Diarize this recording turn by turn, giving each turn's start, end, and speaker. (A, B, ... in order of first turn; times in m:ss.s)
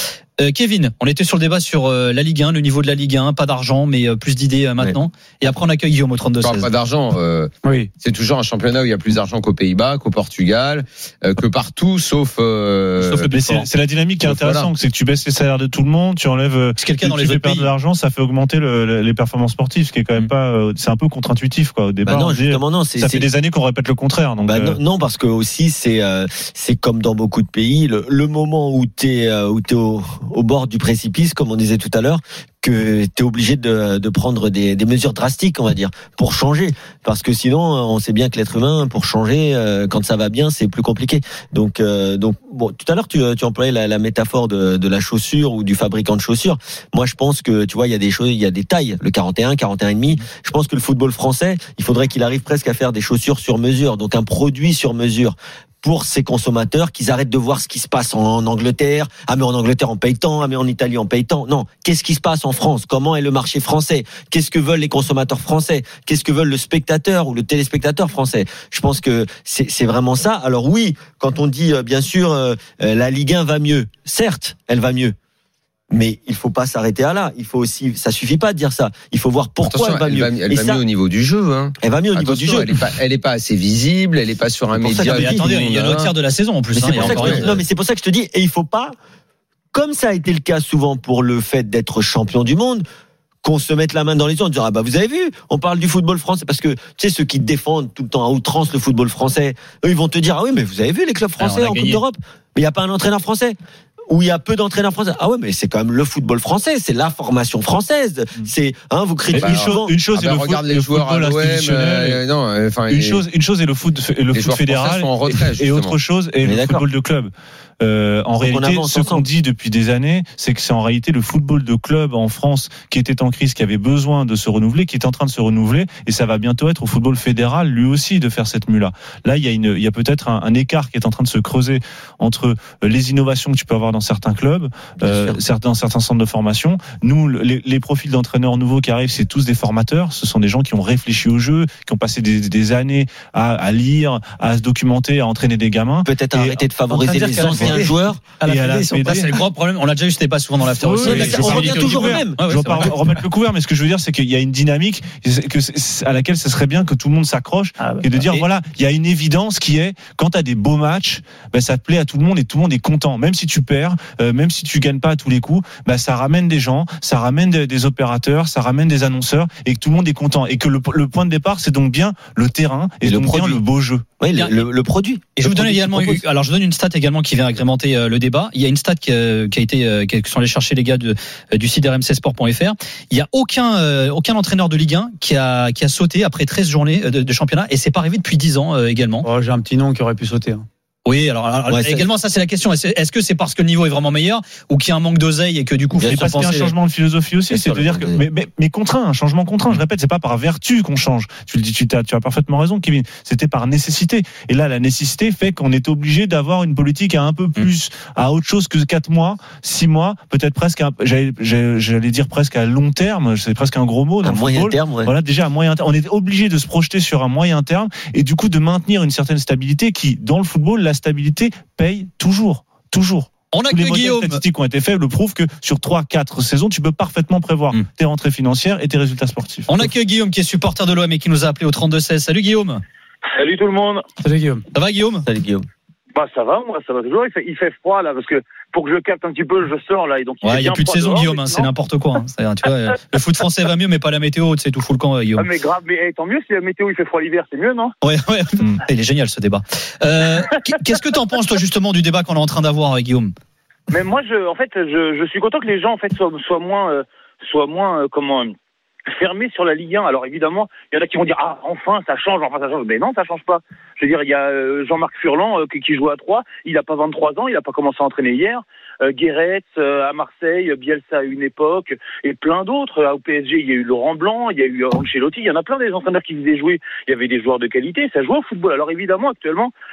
0:00.4-0:06.7 A
0:06.4-0:13.3 B
0:07.6-0:07.9 C
0:13.0-0:13.7 A
0:13.3-0:24.8 D
0:14.2-0:14.7 B
0:16.8-0:17.7 A
0:22.0-0:23.3 E
0:24.4-1:15.2 E
1:15.9-1:20.8 E
1:19.7-1:26.1 B
1:21.8-1:22.7 E
1:24.7-1:25.4 E
1:25.0-1:27.5 A
1:26.7-1:29.0 E
1:27.0-1:27.6 B
1:29.7-1:32.8 E
1:33.4-1:43.6 E
1:41.4-1:42.0 A
1:44.1-1:50.0 E
1:49.3-1:52.2 D
1:49.4-1:53.2 B
1:52.9-2:26.6 D
1:54.3-1:56.0 B
1:56.4-1:56.8 E
1:58.4-1:59.2 E
2:15.0-2:15.4 E
2:26.0-2:28.2 E
2:26.9-2:29.1 C
2:27.4-2:27.8 D
2:28.4-2:29.3 D
2:29.0-2:32.9 A
2:30.8-2:54.0 D
2:31.0-2:32.9 E
2:37.8-2:38.3 C
2:53.0-2:53.6 E
2:54.2-2:56.2 E
2:54.3-2:54.6 A
2:55.4-3:09.3 A
3:09.2-3:10.7 C
3:11.1-3:16.6 A
3:11.7-3:12.1 E
3:15.9-3:16.8 E
3:16.1-3:49.9 D
3:17.5-3:18.2 E
3:34.2-3:35.1 E
3:43.5-3:44.4 A
3:49.7-3:52.8 A
3:53.3-3:54.1 F
3:54.2-3:54.7 C
3:54.7-3:55.3 A
3:55.2-3:55.7 E
3:56.2-4:01.7 F
4:00.4-4:05.5 A
4:05.4-4:07.9 F
4:08.0-4:13.3 A
4:13.9-4:18.5 F
4:19.1-4:39.7 F